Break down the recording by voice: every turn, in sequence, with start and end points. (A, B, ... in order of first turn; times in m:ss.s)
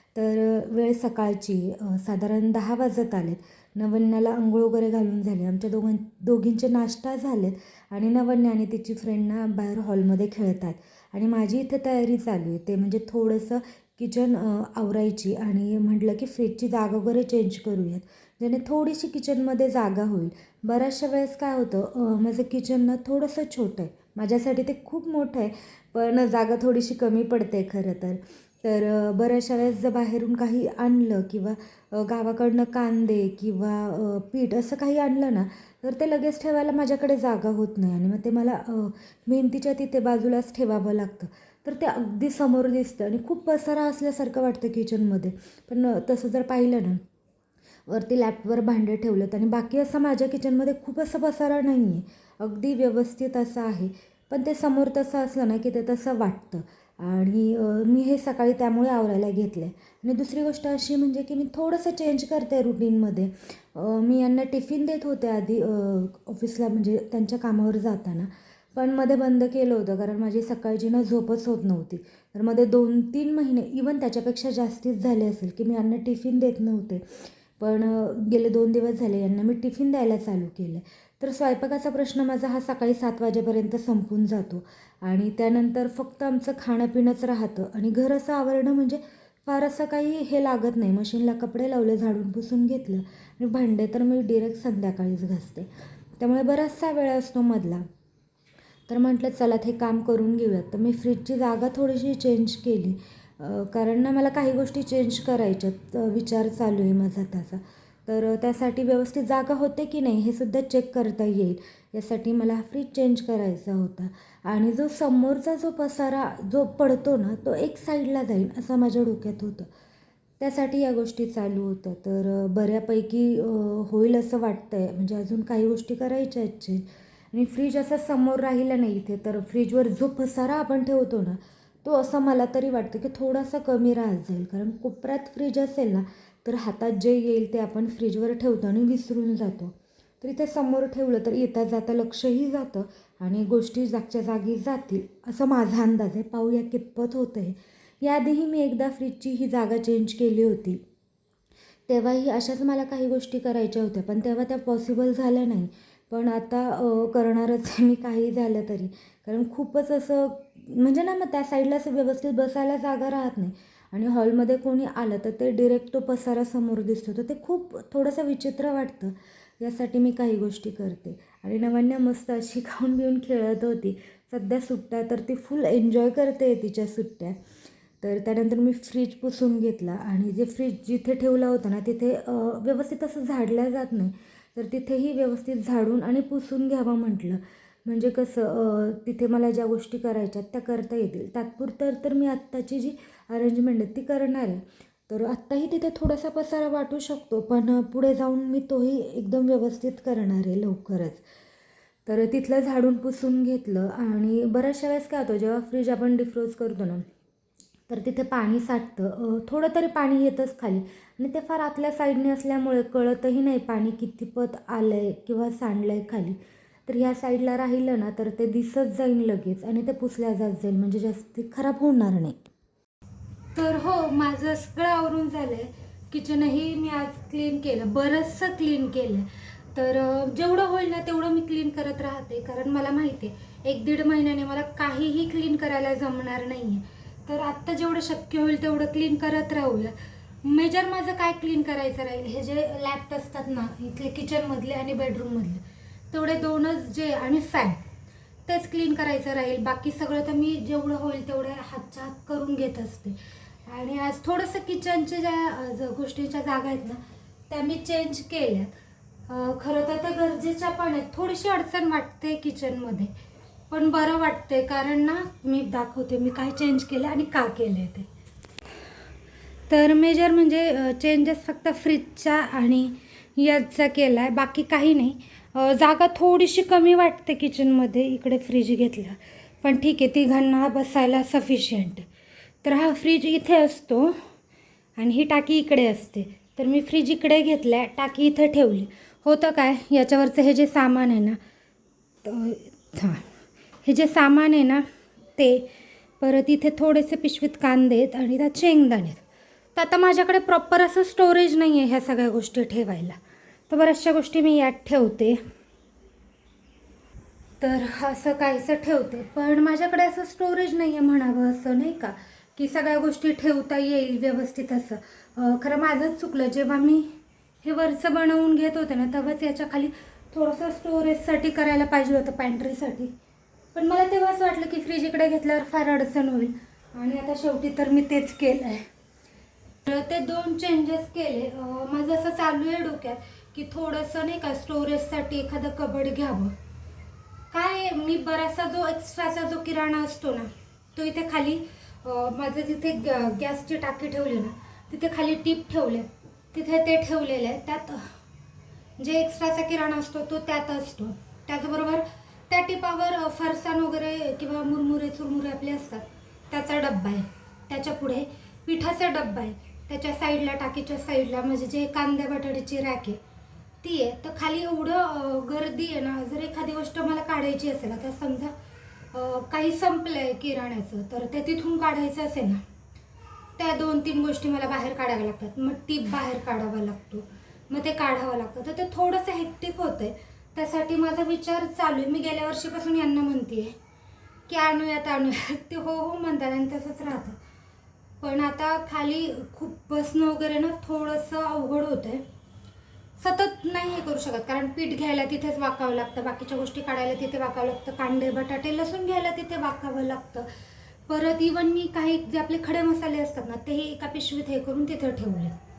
0:00.1-0:47.0 A
0:47.9-1:35.7 A
1:36.2-1:37.8 A
1:38.9-1:59.7 A
2:00.4-2:30.8 A
2:31.9-2:57.4 A
2:58.0-3:21.2 A
3:22.0-3:27.1 A
3:27.9-3:42.4 A
3:43.5-4:07.8 A
4:08.5-4:18.7 A
4:19.3-4:23.1 A
4:23.7-4:28.1 A
4:29.7-4:42.0 A
4:42.6-4:44.2 A
4:45.0-4:51.4 A
4:52.2-4:53.2 A
4:53.8-4:54.8 A
4:55.4-4:55.7 A
4:56.2-4:59.2 A
4:59.8-5:03.2 A
5:03.7-5:05.4 A
5:07.6-5:17.1 A
5:17.6-5:23.1 A
5:23.7-5:28.8 A
5:29.8-5:36.5 A
5:37.5-5:48.1 A
5:49.0-6:03.2 A
6:03.8-6:08.5 A
6:09.1-6:12.6 A
6:13.6-6:23.8 A
6:24.5-6:27.4 A
6:28.2-6:32.2 A
6:33.2-6:40.5 A
6:41.1-6:45.6 A